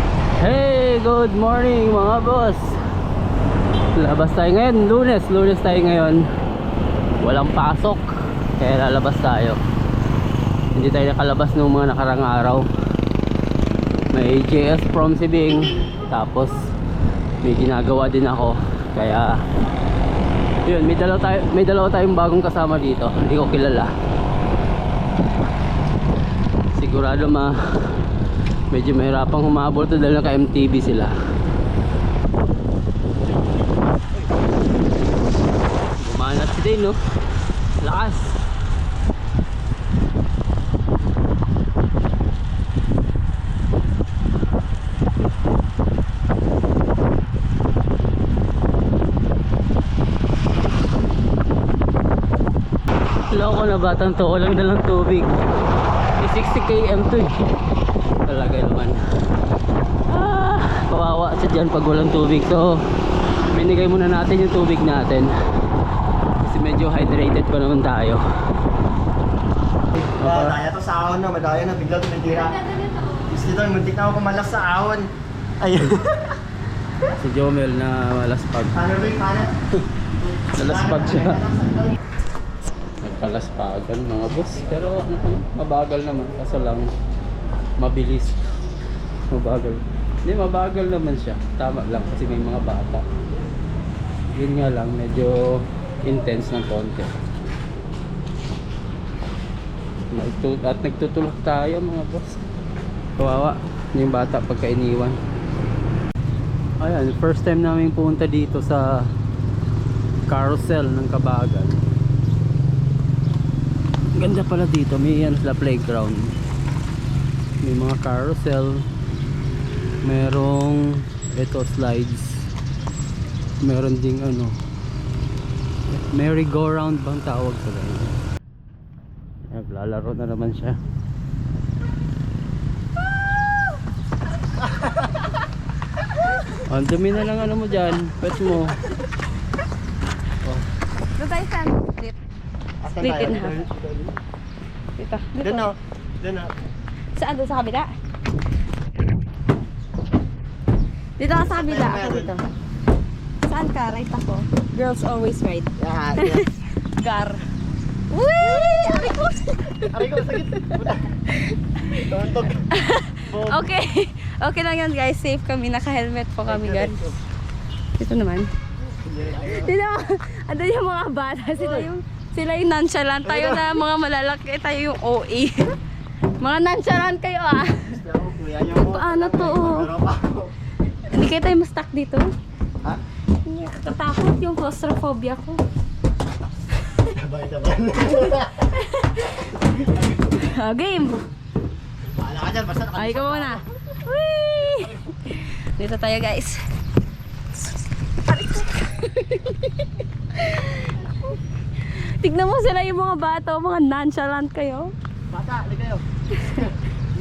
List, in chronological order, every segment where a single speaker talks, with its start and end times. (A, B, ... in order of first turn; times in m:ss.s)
0:00.4-0:02.7 A
0:04.0-0:06.2 A
0:07.2-0:09.6 A
0:10.7-0:12.6 A
0:14.1-0:16.7 A
0:17.4-0:19.4 A
0:20.6-0:23.9 A
0:26.7-0:28.0 A
0:28.7-0:31.1 A
0:36.0-0:37.0 A
0:37.8-0:38.4 A
0:53.3-0:55.4 A
0:56.2-0:57.4 A
0:58.2-0:59.0 A
1:00.1-1:02.8 A
1:03.3-1:05.3 A
1:06.4-1:08.2 A
1:09.9-1:12.6 B
1:10.2-1:10.6 A
1:12.6-1:13.2 C
1:13.3-1:15.1 B
1:15.6-1:16.3 B
1:17.2-1:18.8 A
1:18.7-1:19.5 B
1:20.3-1:22.0 B
1:20.6-1:21.4 A
1:23.0-1:26.9 A
1:27.8-1:28.4 A
1:29.3-1:33.0 A
1:34.3-1:37.1 A
1:40.1-1:42.4 A
1:43.2-1:45.2 A
1:46.8-1:49.1 A
1:50.3-1:51.8 A
1:54.2-1:56.3 A
1:57.6-1:58.8 A
2:00.0-2:02.5 A
2:03.6-2:04.6 A
2:05.9-2:08.2 A
2:09.5-2:10.8 A
2:16.7-2:18.8 A
2:21.2-2:22.1 C
2:22.8-2:24.2 B
2:23.0-2:23.5 C
2:25.0-2:25.7 C
2:25.4-2:26.5 B
2:27.2-2:27.9 C
2:31.2-2:32.4 C
2:31.3-2:32.3 B
2:33.4-2:37.4 C
2:35.8-2:36.5 B
2:38.1-2:40.2 C
2:39.9-2:41.1 B
2:41.4-2:42.0 C
2:41.9-2:42.6 B
2:42.6-2:47.1 C
2:43.2-2:43.6 B
2:46.4-2:47.2 B
2:48.0-2:48.5 C
2:48.9-2:49.7 B
2:49.4-2:55.8 C
2:51.6-2:51.9 B
2:53.2-2:53.7 B
2:56.4-2:58.0 C
2:57.9-3:00.5 B
2:58.7-2:59.9 C
3:01.1-3:02.3 C
3:03.4-3:05.6 C
3:07.1-3:08.6 B
3:08.7-3:09.3 C
3:10.2-3:11.2 C
3:12.1-3:13.6 B
3:12.9-3:16.6 C
3:18.2-3:24.9 C
3:25.3-3:26.0 B
3:26.3-3:26.7 C